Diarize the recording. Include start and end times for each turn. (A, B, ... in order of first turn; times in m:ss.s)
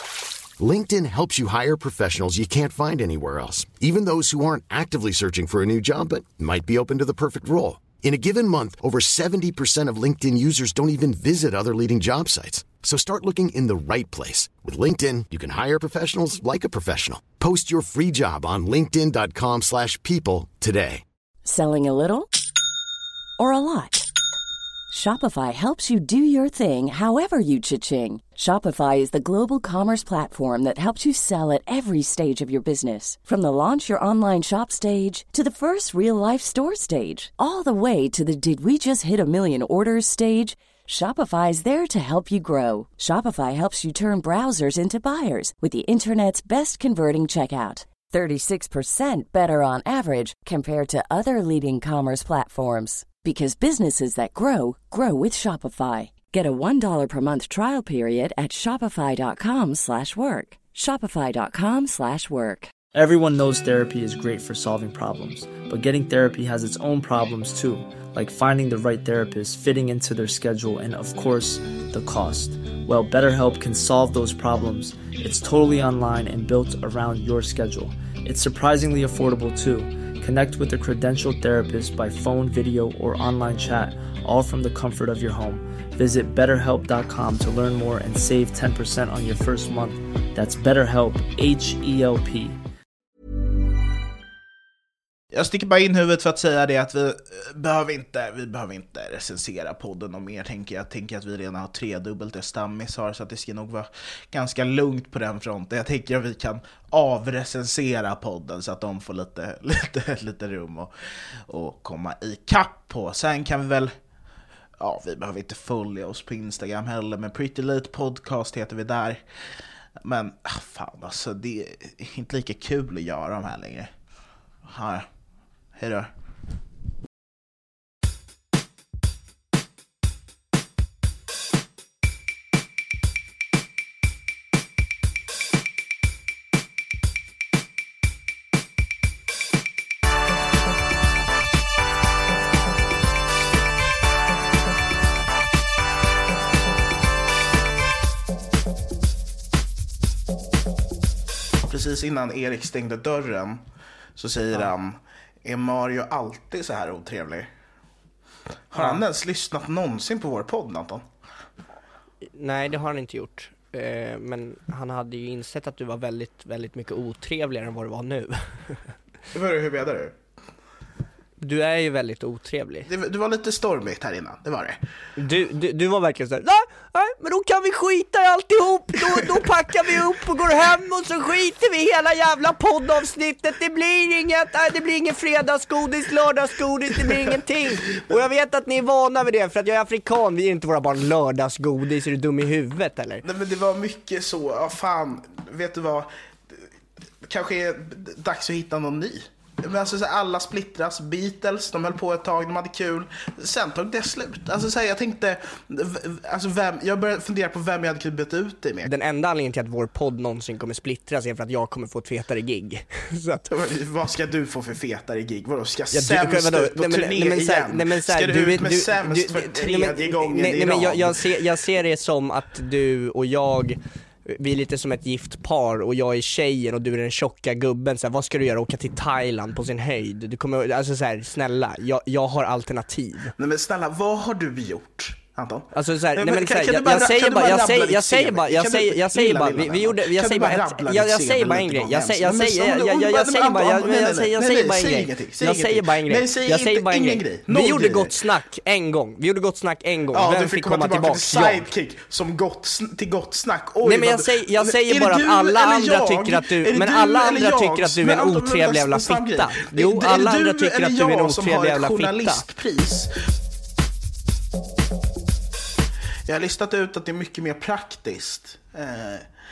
0:00.6-0:21.0 A
0:21.4-0:22.3 B
0:23.4-0:24.1 B
0:24.9-1:02.7 B
1:02.9-1:32.6 C
1:35.3-1:50.9 D
1:51.5-1:53.9 D
1:54.8-1:59.2 D
2:00.0-2:03.9 D
2:04.7-2:05.0 D
2:05.7-2:06.1 D
2:31.6-2:33.6 D
2:34.2-2:37.5 D
2:38.7-2:41.0 D
2:38.7-2:39.0 E
2:42.3-2:48.8 E
2:49.3-2:50.1 D
2:51.4-2:52.9 E
2:52.9-2:54.8 D
2:55.2-3:13.2 E
3:13.2-3:16.1 D
3:17.2-3:28.9 D
3:28.8-3:33.5 E
3:33.5-3:41.2 D
3:35.9-3:53.3 E
3:53.4-4:08.1 D
3:55.7-4:11.7 E
4:10.1-4:23.1 D
4:13.8-4:22.4 E
4:26.3-4:29.3 D